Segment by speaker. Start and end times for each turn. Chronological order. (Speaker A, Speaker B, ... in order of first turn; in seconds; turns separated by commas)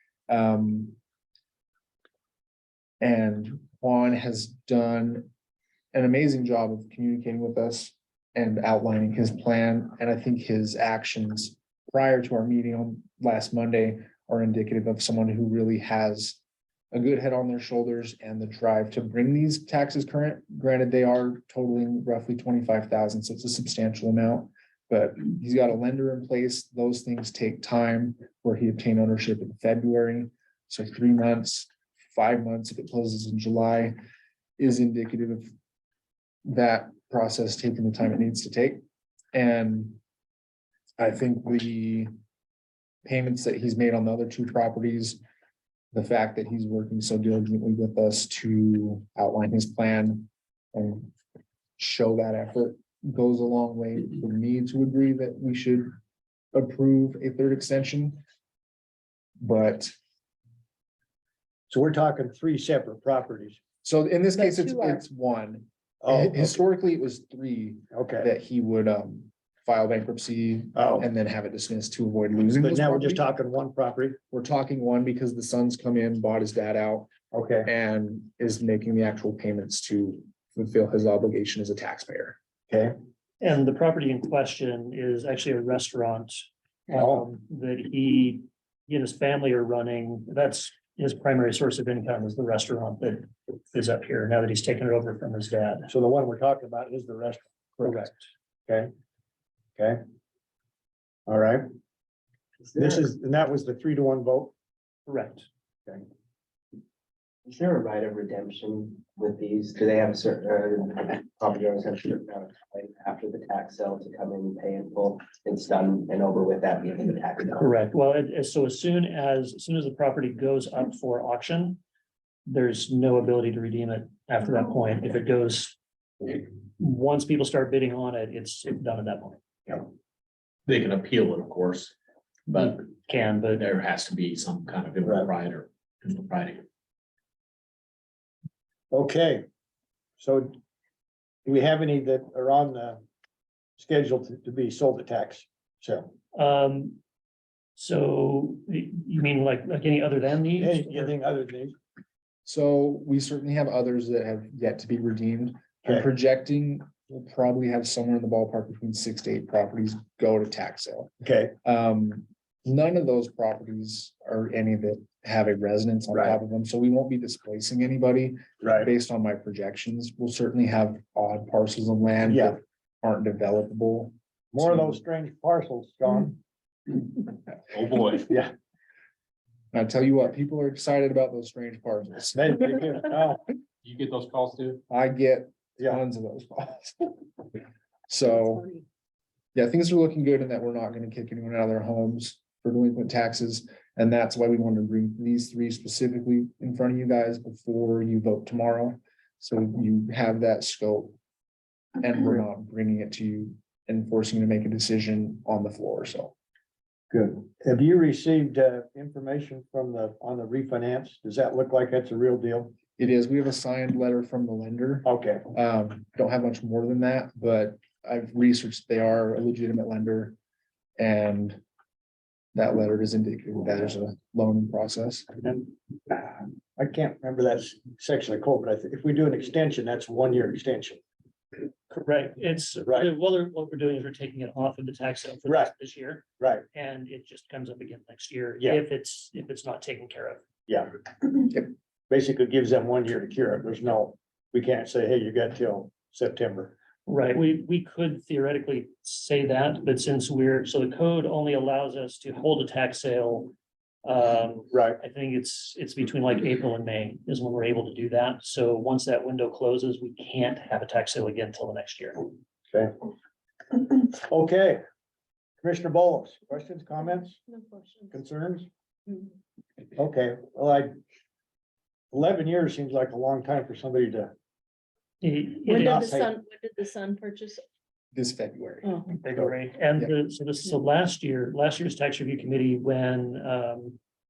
Speaker A: 0.3-0.9, Speaker A: 3.0-5.3, Speaker A: 5.9-16.4, Speaker A: 16.9-33.9, Speaker A: 34.6-35.5, Speaker A: 36.4-38.8, Speaker A: 39.3-40.0, Speaker A: 41.0-42.1, Speaker A: 43.0-45.2, Speaker A: 45.9-51.1, Speaker A: 51.8-55.9, Speaker A: 56.5-58.2, Speaker A: 59.4-59.9, Speaker B: 61.7-63.6, Speaker A: 63.8-73.2, Speaker C: 64.4-65.0, Speaker B: 66.0-66.5, Speaker B: 67.9-68.3, Speaker B: 70.7-71.0, Speaker B: 72.6-74.2, Speaker A: 74.3-77.1, Speaker B: 77.3-77.7, Speaker A: 77.6-82.4, Speaker B: 82.7-82.9, Speaker D: 83.4-95.9, Speaker B: 86.9-87.4, Speaker B: 95.9-98.1, Speaker D: 97.8-98.2, Speaker B: 99.8-100.0, Speaker B: 101.3-101.7, Speaker E: 102.6-103.0, Speaker B: 102.8-104.5, Speaker D: 105.1-105.5, Speaker E: 107.4-117.7, Speaker D: 117.6-121.8, Speaker D: 122.5-129.8, Speaker F: 130.7-131.9, Speaker F: 132.5-132.8, Speaker D: 132.6-133.6, Speaker F: 133.5-136.6, Speaker B: 138.9-139.4, Speaker B: 140.2-140.6, Speaker B: 141.4-143.0, Speaker B: 143.8-146.1, Speaker D: 146.3-147.0, Speaker D: 147.8-151.1, Speaker B: 150.6-151.7, Speaker A: 152.4-161.1, Speaker B: 161.2-161.5, Speaker A: 161.6-174.1, Speaker B: 166.1-166.4, Speaker B: 168.6-168.9, Speaker B: 172.2-172.6, Speaker B: 174.5-176.4, Speaker F: 177.7-178.3, Speaker B: 178.2-178.5, Speaker A: 179.7-182.6, Speaker B: 182.3-183.4, Speaker F: 183.8-184.8, Speaker A: 184.9-187.2, Speaker A: 188.1-188.8, Speaker A: 189.5-201.2, Speaker A: 202.0-206.3, Speaker B: 207.1-212.8, Speaker A: 213.0-220.3, Speaker B: 215.0-215.5, Speaker A: 221.0-221.6, Speaker A: 222.5-225.3, Speaker B: 225.4-231.0, Speaker D: 231.9-240.4, Speaker B: 235.4-235.7, Speaker B: 240.7-241.6, Speaker B: 242.1-246.7, Speaker D: 247.1-262.3, Speaker B: 254.7-255.0, Speaker B: 263.7-264.8, Speaker B: 265.6-267.4, Speaker C: 267.5-268.1, Speaker B: 268.1-268.7, Speaker B: 269.9-270.9, Speaker B: 272.1-274.3, Speaker D: 275.2-276.1, Speaker C: 275.6-277.6, Speaker B: 275.7-276.3, Speaker A: 278.1-278.9, Speaker D: 279.1-284.0